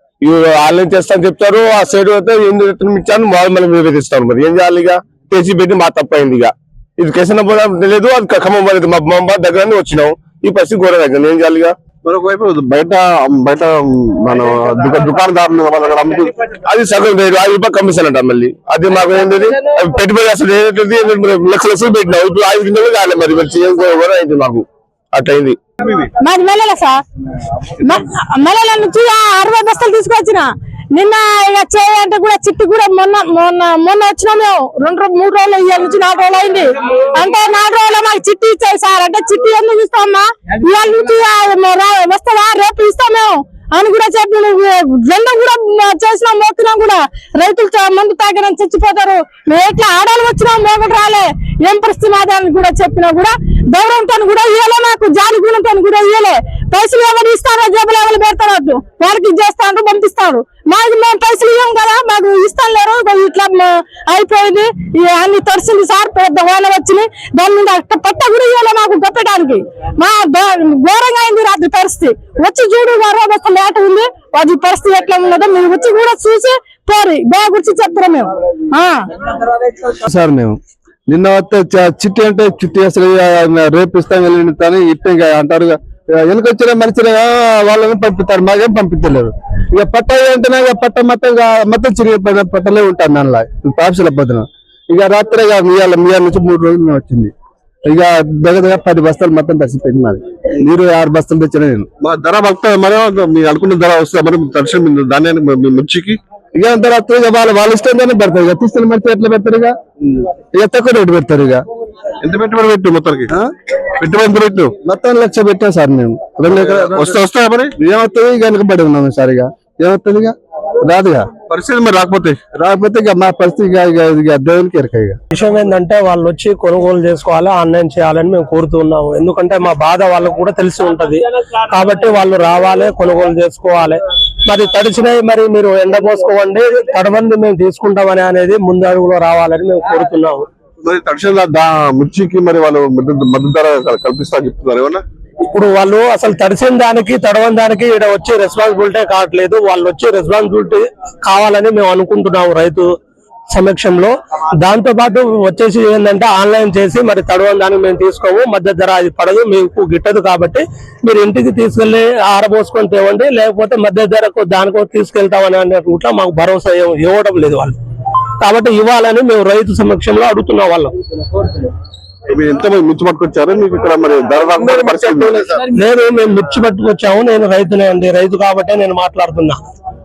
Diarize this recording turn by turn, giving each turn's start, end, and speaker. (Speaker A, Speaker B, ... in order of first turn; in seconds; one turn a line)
Speaker A: 0.2-11.8
Speaker B: 12.0-16.3
Speaker A: 16.5-25.6
Speaker C: 26.2-27.0
Speaker C: 27.8-79.1
Speaker D: 80.0-97.3
Speaker D: 97.8-101.8
Speaker B: 102.0-106.2
Speaker D: 106.5-109.7
Speaker D: 110.6-111.6
Speaker B: 112.2-113.3
Speaker B: 114.0-114.8
Speaker D: 114.8-117.1
Speaker B: 116.5-117.8
Speaker D: 117.8-121.3
Speaker B: 121.5-122.5
Speaker D: 122.5-125.2
Speaker E: 125.3-140.4
Speaker B: 140.8-145.0
Speaker E: 145.5-152.9
Speaker E: 153.5-167.8
Speaker E: 168.4-171.5
Speaker B: 172.3-175.6
Speaker A: 174.8-175.2
Speaker E: 175.7-179.6